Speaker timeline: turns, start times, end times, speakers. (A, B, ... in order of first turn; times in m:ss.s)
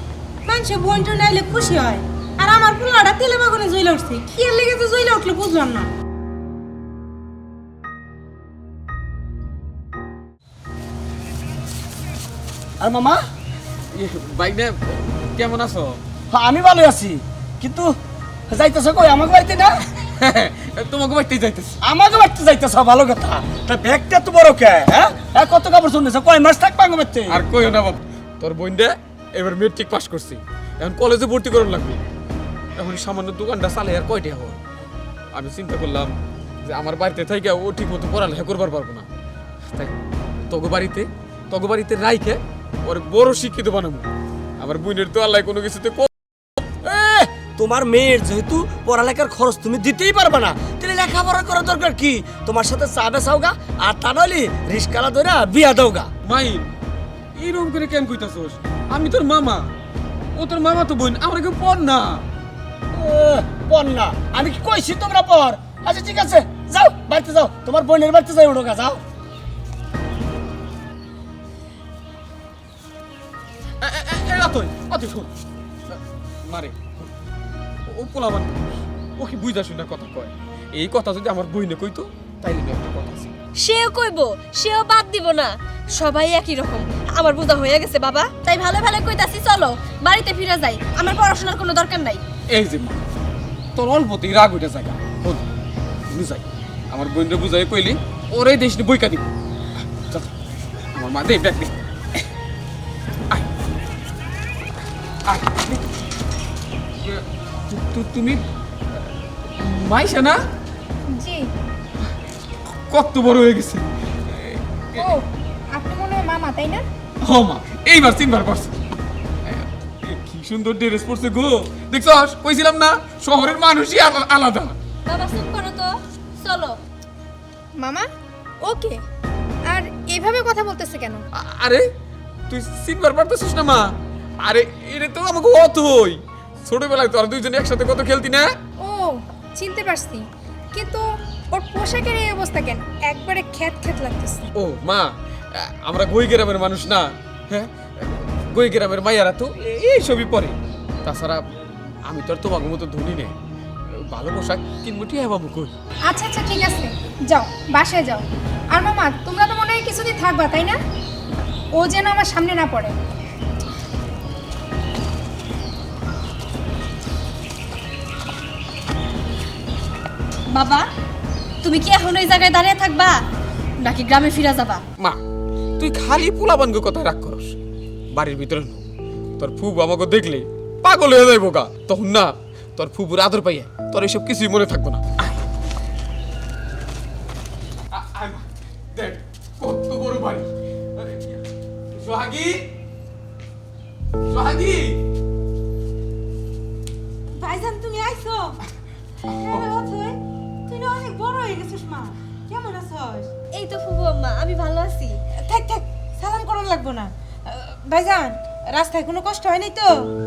0:00.5-0:05.9 A
0:12.8-0:13.2 B
0:13.9-0:16.0 C
0:16.3-0:17.9 B
0:18.5-0:19.7 B
0:20.0-0:21.8 C
0:21.8-0:27.4 B
0:27.3-0:32.0 C
0:32.8-0:34.6 C
0:35.3-0:39.1 C
0:40.5-0:46.1 C
0:46.8-0:56.1 B
0:56.2-0:56.7 C
0:57.4-0:59.7 C
1:00.4-1:02.2 C
1:02.9-1:09.0 B
1:13.8-1:15.3 C
1:15.9-1:17.1 C
1:17.9-1:23.3 C
1:23.6-1:32.2 D
1:32.5-1:33.0 C
1:33.8-1:35.5 C
1:36.1-1:39.3 C
1:40.0-1:40.3 C
1:40.9-1:41.8 C
1:45.3-1:45.8 C
1:47.0-1:48.4 C
1:49.6-1:50.4 C
1:51.1-1:51.5 E
1:52.7-1:55.0 C
1:55.0-1:56.8 E
1:57.2-1:58.8 C
1:59.4-2:04.8 C
2:05.1-2:06.8 D
2:07.8-2:08.1 E
2:08.6-2:09.0 E
2:09.7-2:11.2 E
2:11.4-2:11.9 C
2:12.5-2:18.6 C
2:18.8-2:24.5 E
2:24.6-2:31.4 C
2:32.1-2:33.4 C
2:34.1-2:35.7 C
2:36.1-2:40.8 E
2:41.8-2:42.9 E
2:50.5-2:50.9 D
2:51.6-2:53.2 D
2:53.8-2:54.8 D
2:55.8-2:57.6 C
2:58.1-2:58.9 C
2:59.4-3:05.4 C
3:07.9-3:11.4 C
3:11.9-3:12.7 C
3:14.3-3:15.0 C
3:17.4-3:18.6 A
3:19.3-3:23.3 A
3:23.5-3:25.2 D
3:25.4-3:30.1 A